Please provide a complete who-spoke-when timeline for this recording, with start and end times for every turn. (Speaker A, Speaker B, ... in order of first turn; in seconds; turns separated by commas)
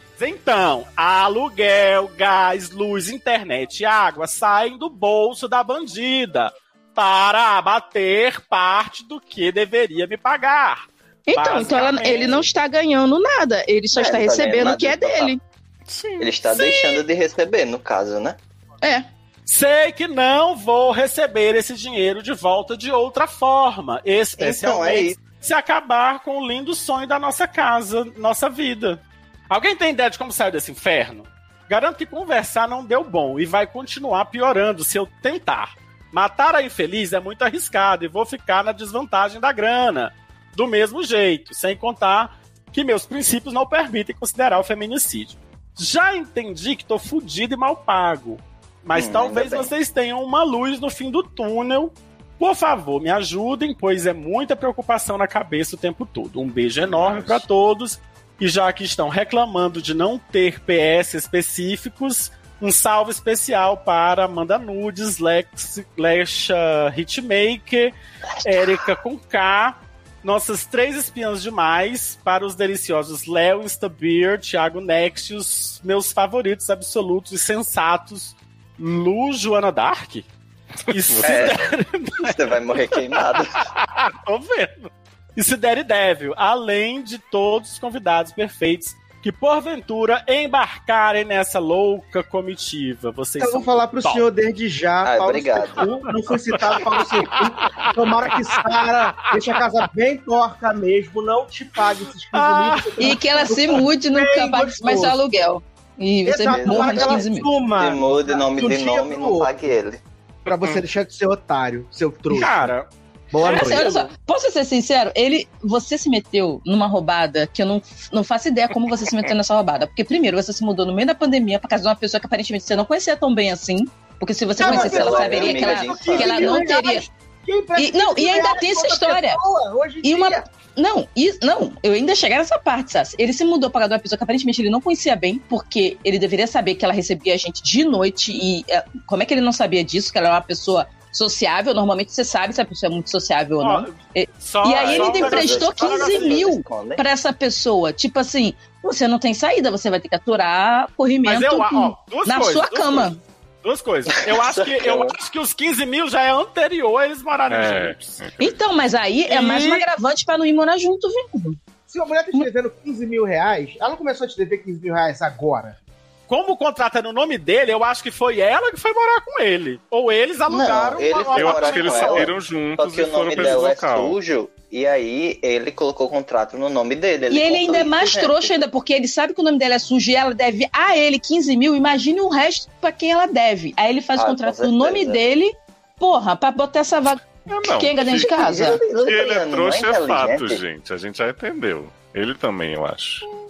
Speaker A: 0.2-12.4, Speaker B: 11.3-15.4, Speaker C: 13.9-15.3, Speaker D: 15.9-16.3, Speaker C: 16.2-18.4, Speaker A: 19.5-80.3, Speaker C: 24.4-25.2, Speaker C: 48.9-49.7, Speaker D: 56.8-57.5, Speaker C: 68.4-68.9, Speaker D: 80.9-81.6, Speaker A: 80.9-94.3, Speaker C: 81.2-83.7, Speaker E: 93.4-105.2, Speaker C: 95.0-95.9, Speaker A: 96.6-98.0, Speaker A: 98.6-99.3, Speaker A: 102.3-103.2, Speaker B: 103.0-107.5, Speaker E: 106.2-109.7, Speaker C: 106.4-110.0, Speaker E: 110.5-112.7, Speaker D: 110.5-110.8, Speaker A: 112.3-112.9, Speaker E: 113.3-114.0, Speaker A: 113.4-113.9, Speaker B: 113.4-127.1, Speaker C: 124.6-126.7, Speaker E: 124.6-130.4, Speaker B: 127.8-129.4, Speaker B: 130.0-153.2, Speaker A: 143.6-146.5, Speaker C: 144.7-147.0, Speaker A: 151.2-153.1, Speaker A: 153.6-158.2, Speaker C: 154.3-155.1, Speaker D: 157.5-158.6, Speaker B: 158.4-161.6, Speaker A: 159.3-159.8, Speaker E: 161.9-165.8, Speaker A: 166.3-172.3, Speaker C: 170.5-178.5, Speaker D: 171.3-174.2, Speaker B: 177.3-188.8, Speaker C: 184.2-185.2, Speaker D: 187.5-188.4, Speaker C: 188.3-190.6, Speaker D: 189.0-193.3